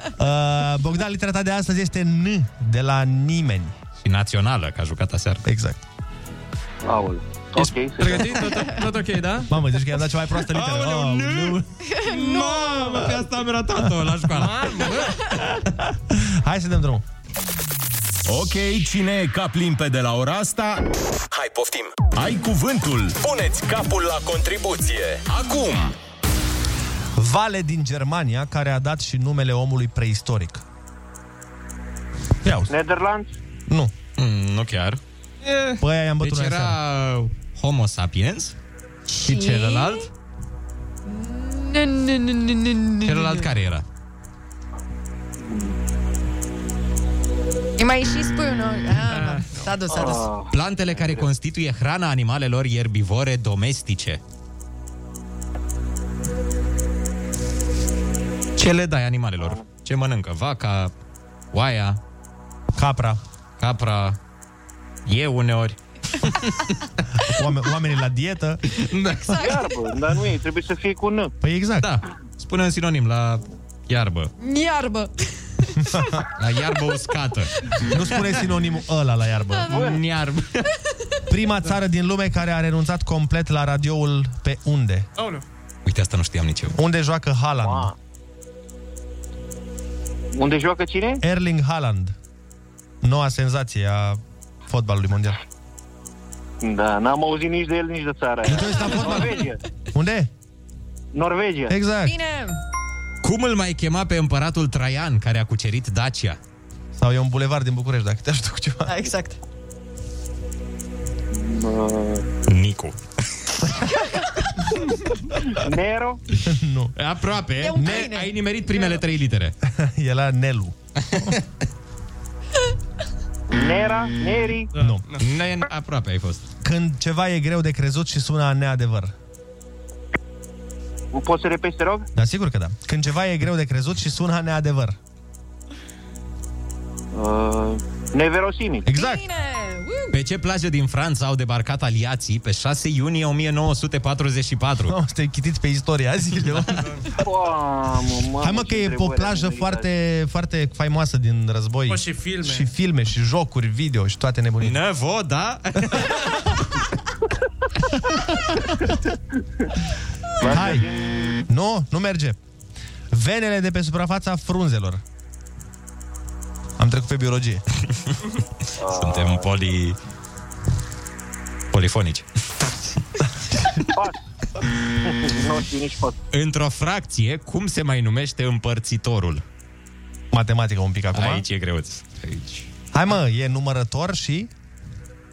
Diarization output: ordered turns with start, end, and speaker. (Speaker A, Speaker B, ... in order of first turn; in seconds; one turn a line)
Speaker A: 0.2-3.8
Speaker B: 4.0-5.4
Speaker A: 5.5-5.8
Speaker C: 6.9-8.2
Speaker D: 8.0-9.5
Speaker A: 9.4-11.6
Speaker B: 10.6-11.6
Speaker E: 11.8-12.9
Speaker D: 12.2-13.0
Speaker B: 12.3-14.6
Speaker D: 14.3-15.1
Speaker A: 16.1-17.0
Speaker F: 18.2-25.9
Speaker A: 27.1-30.6
Speaker A: 32.4-32.7
Speaker C: 32.7-33.3
Speaker B: 34.2-35.0
Speaker D: 35.4-35.8
Speaker A: 35.8-36.8
Speaker B: 36.2-38.5
Speaker E: 39.1-40.0
Speaker B: 39.2-40.1
Speaker E: 41.0-43.4
Speaker B: 43.0-43.8
Speaker E: 47.8-50.3
Speaker D: 49.1-49.5
Speaker C: 49.9-50.3
Speaker B: 50.5-54.2
Speaker C: 50.9-51.2
Speaker B: 58.6-60.9
Speaker B: 61.5-62.0
Speaker A: 62.7-63.2
Speaker B: 63.6-64.2
Speaker B: 65.0-66.8
Speaker A: 67.3-68.6
Speaker B: 68.9-69.3
Speaker E: 69.3-69.6
Speaker C: 69.3-71.3
Speaker A: 71.4-71.9
Speaker B: 71.8-74.3
Speaker E: 74.4-76.1
Speaker A: 75.8-76.2
Speaker B: 76.4-77.5
Speaker A: 77.9-79.8
Speaker B: 79.7-80.7
Speaker C: 79.7-80.0
Speaker A: 81.3-85.1
Speaker D: 85.2-85.4
Speaker B: 85.8-86.8
Speaker A: 86.7-87.9
Speaker C: 87.6-87.9
Speaker C: 90.3-91.2
Speaker A: 91.2-92.1
Speaker A: 93.0-95.4
Speaker C: 96.6-99.6
Speaker A: 98.5-100.3
Speaker C: 101.1-101.7
Speaker A: 101.7-102.2
Speaker E: 102.0-102.6
Speaker B: 103.2-106.4
Speaker A: 107.0-109.0
Speaker E: 108.8-109.4
Speaker C: 111.3-112.2
Speaker B: 112.5-112.9
Speaker C: 115.6-116.2
Speaker A: 116.4-116.9
Speaker B: 117.0-119.5
Speaker E: 117.6-118.9
Speaker A: 117.8-118.1
Speaker A: 119.6-121.3
Speaker B: 121.1-121.4
Speaker C: 123.5-124.7
Speaker D: 124.7-125.2
Speaker A: 124.8-125.0
Speaker B: 125.2-126.5
Speaker A: 126.6-129.1
Speaker C: 131.1-132.1
Speaker A: 132.1-134.9
Speaker C: 137.1-138.9
Speaker A: 138.8-139.2
Speaker E: 138.9-140.2
Speaker B: 140.1-144.9
Speaker A: 144.8-146.7
Speaker C: 147.2-149.9
Speaker A: 148.4-154.8
Speaker D: 151.9-152.7
Speaker B: 154.6-156.4
Speaker C: 160.5-160.9
Speaker A: 160.5-160.9
Speaker A: 161.5-162.4
Speaker A: 163.1-165.0
Speaker A: 166.8-167.6
Speaker C: 168.8-169.4
Speaker B: 168.9-170.0
Speaker B: 171.7-172.2
Speaker C: 175.2-176.1
Speaker B: 176.3-179.4
Speaker A: 180.3-181.4
Speaker B: 181.1-182.7
Speaker A: 182.9-184.5